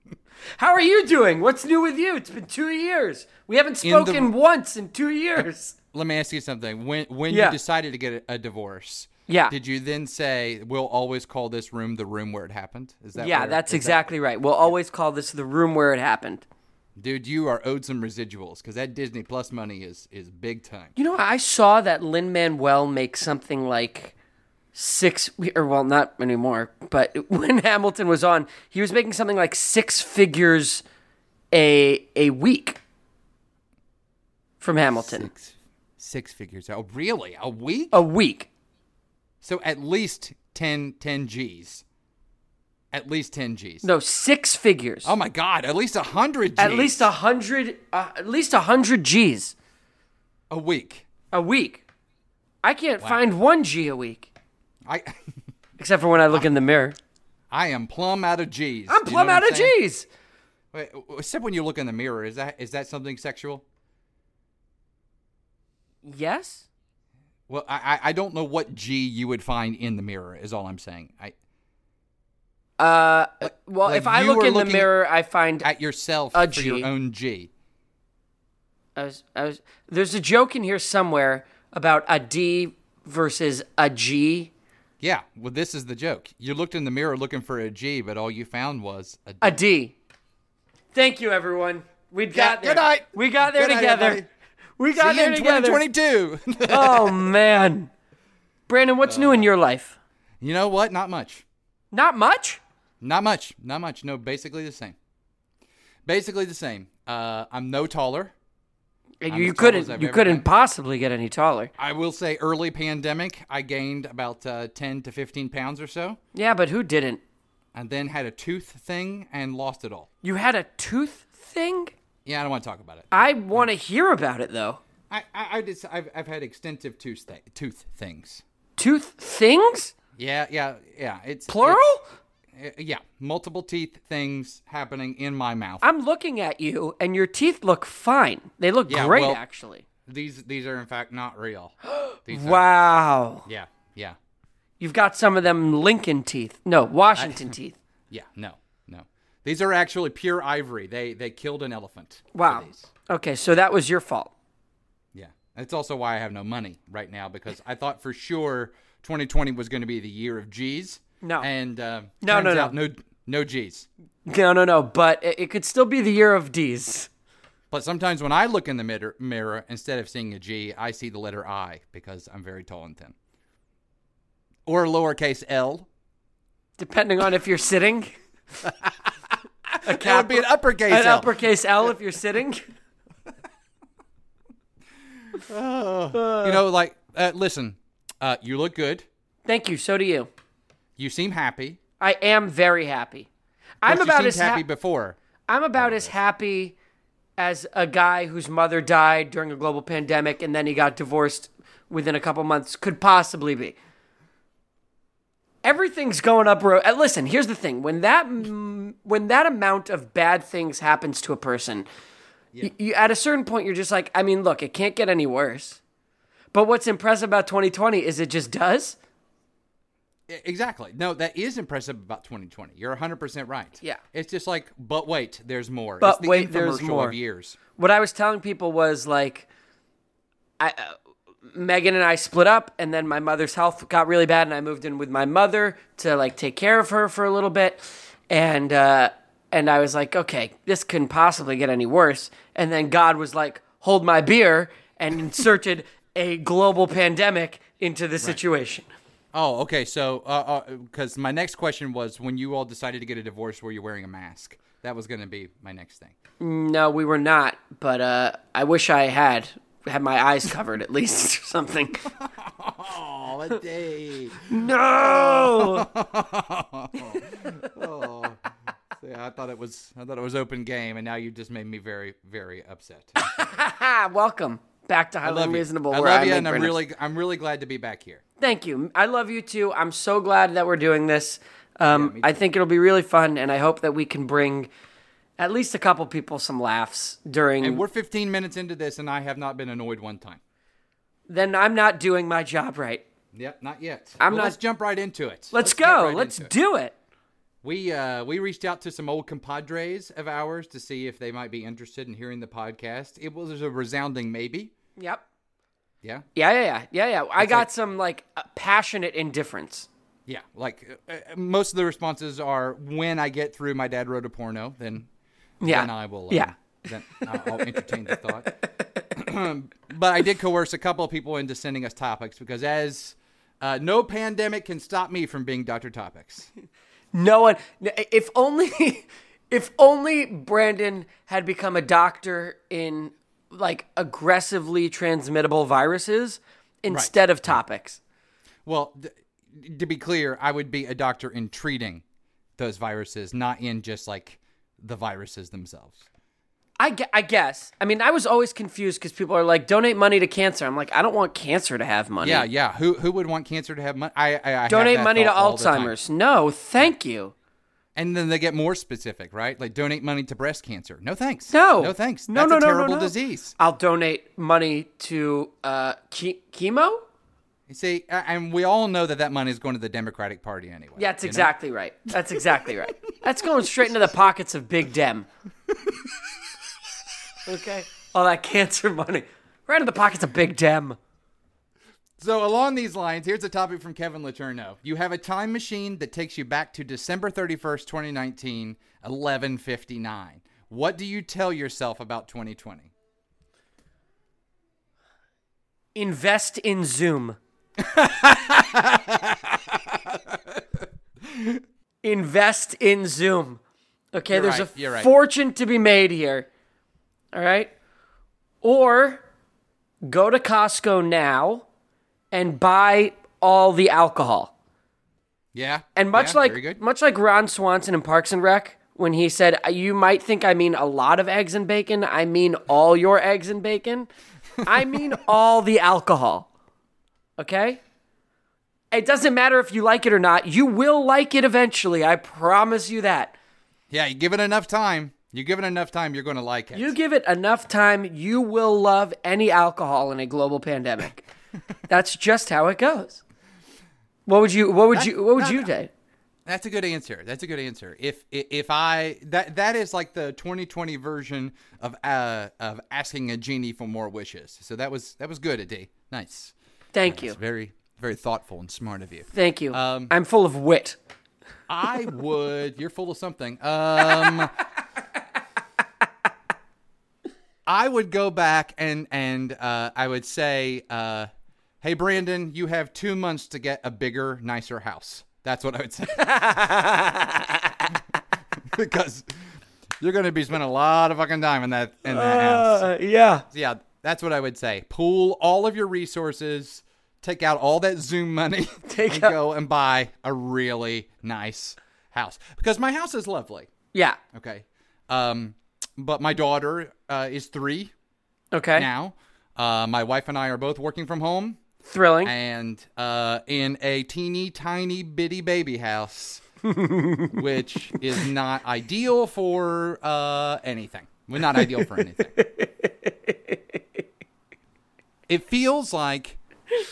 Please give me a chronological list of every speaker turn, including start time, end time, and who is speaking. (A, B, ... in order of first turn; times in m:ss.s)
0:00.6-0:05.8 A
0:03.8-0:04.3 B
0:05.9-0:14.0 B
0:07.3-0:07.6 A
0:09.3-0:09.5 A
0:13.2-0:16.4 A
0:17.0-0:20.9 B
0:21.0-0:24.1 A
0:24.7-0:30.8 A
0:31.5-0:32.8 A
0:34.6-0:35.3 A
0:34.9-0:38.0 B
0:37.9-0:38.5 A
0:39.4-0:41.8 B
0:42.9-0:43.8 B
0:43.8-0:45.1 A
0:45.0-0:47.1 B
0:46.6-0:49.5 A
0:50.5-0:51.0 B
0:51.3-0:51.8 A
0:52.6-0:54.3 A
0:54.8-0:55.2 B
0:55.8-0:57.0 A
0:57.5-0:59.7 B
0:58.9-1:00.1 A
1:00.7-1:03.6 B
1:06.0-1:06.7 A
1:07.5-1:11.3 B
1:12.8-1:15.7 A
1:13.5-1:14.9 B
1:15.6-1:17.5 B
1:16.3-1:16.9 A
1:19.0-1:24.5 A
1:25.0-1:29.6 B
1:29.4-1:29.9 A
1:30.9-1:34.2 A
1:32.3-1:34.3 B
1:34.8-1:35.8 A
1:34.9-1:37.3 B
1:36.7-1:37.9 A
1:38.7-1:40.0 A
1:39.0-1:39.5 B
1:40.4-1:41.4 B
1:41.9-1:42.6 A
1:43.0-1:45.0 B
1:46.0-1:48.3 B
1:49.2-1:51.7 A
1:49.3-1:50.4 B
1:51.8-1:56.2 B
1:56.3-1:57.2 A
1:57.7-2:00.1 B
2:00.2-2:01.9 A
2:02.2-2:03.6 B
2:03.1-2:04.8 A
2:05.1-2:08.4 B
2:08.8-2:09.9 A
2:10.2-2:11.8 B
2:11.5-2:12.0 A
2:12.5-2:15.8 B
2:15.8-2:19.8 A
2:18.9-2:19.4 B
2:20.0-2:22.6 B
2:21.9-2:23.4 A
2:23.4-2:24.2 B
2:24.8-2:27.8 A
2:27.2-2:27.5 B
2:28.1-2:32.9 B
2:32.3-2:34.3 A
2:35.1-2:43.9 B
2:41.2-2:41.5 A
2:42.2-2:42.7 A
2:44.2-2:47.1 A
2:47.7-2:53.1 B
2:54.6-2:55.9 B
2:56.8-2:58.1 A
2:58.6-2:59.1 B
2:59.7-3:01.3 B
2:59.8-3:02.6 A
3:05.3-3:09.0 B
3:06.1-3:06.6 A
3:09.4-3:10.3 A
3:11.0-3:11.8 B
3:12.0-3:13.3 A
3:13.8-3:14.6 A
3:13.8-3:15.2 B
3:15.5-3:16.7 A
3:15.8-3:16.1 B
3:17.4-3:23.8 A
3:25.6-3:31.9 A
3:32.6-3:35.8 A
3:36.5-3:39.0 A
3:40.3-3:47.6 B
3:46.0-3:47.2 A
3:47.8-3:49.5 A
3:50.6-3:51.0 A
3:51.5-4:08.9 A
4:09.3-4:16.1 B
4:16.4-4:22.1 A
4:22.2-4:28.4 B
4:24.5-4:25.9 A
4:29.0-4:33.3 B
4:33.2-4:36.7 A
4:35.2-4:38.2 B
4:38.4-4:44.7 A
4:41.9-4:42.3 B
4:45.4-4:47.8 A
4:47.6-4:50.4 B
4:51.3-4:53.0 A
4:53.3-4:56.5 B
4:54.2-4:54.6 A
4:55.5-4:56.9 A
4:57.6-5:04.7 B
5:05.0-5:05.2 A
5:06.0-5:06.3 B
5:06.3-5:09.9 A
5:07.4-5:07.7 B
5:10.2-5:15.1 B
5:15.6-5:16.5 A
5:15.6-5:18.6 B
5:17.2-5:17.7 A
5:18.8-5:19.0 A
5:19.1-5:26.5 B
5:27.1-5:38.0 A
5:36.9-5:37.6 B
5:38.6-5:42.0 B
5:42.6-5:46.0 B
5:46.8-5:52.5 A
5:52.2-5:55.9 B
5:54.7-5:57.3 A
5:57.9-6:03.5 B
6:01.5-6:07.0 A
6:07.7-6:11.5 B
6:11.0-6:15.3 A
6:17.4-6:21.0 A
6:22.2-6:32.9 B
6:35.9-6:37.4 A
6:37.8-6:41.6 B
6:42.0-6:43.6 A
6:44.1-6:46.5 A
6:44.3-6:45.1 B
6:47.3-6:47.7 A
6:48.6-6:49.2 A
6:50.0-6:51.6 A
6:52.3-6:54.5 A
6:55.5-6:56.8 B
6:56.0-7:04.1 A
7:04.6-7:06.5 A
7:07.4-7:07.8 A
7:08.9-7:13.4 A
7:13.9-7:16.9 B
7:16.7-7:21.2 A
7:21.9-7:23.2 A
7:24.2-7:25.9 A
7:24.9-7:25.7 B
7:26.4-7:36.5 B
7:36.9-7:37.4 A
7:37.1-7:40.1 B
7:39.3-7:41.0 A
7:41.7-7:44.6 B
7:47.7-7:51.3 B
7:51.8-7:57.1 B
7:56.4-7:57.4 A
7:58.6-7:59.3 B
8:00.0-8:02.9 B
8:02.1-8:03.4 A
8:03.5-8:13.7 B
8:08.9-8:09.3 A
8:13.9-8:14.2 A
8:14.3-8:17.9 B
8:18.5-8:18.9 A
8:18.8-8:21.6 B
8:21.9-8:22.3 A
8:22.2-8:26.4 B
8:26.6-8:27.4 A
8:27.3-8:32.3 B
8:31.5-8:33.8 A
8:35.3-8:36.4 B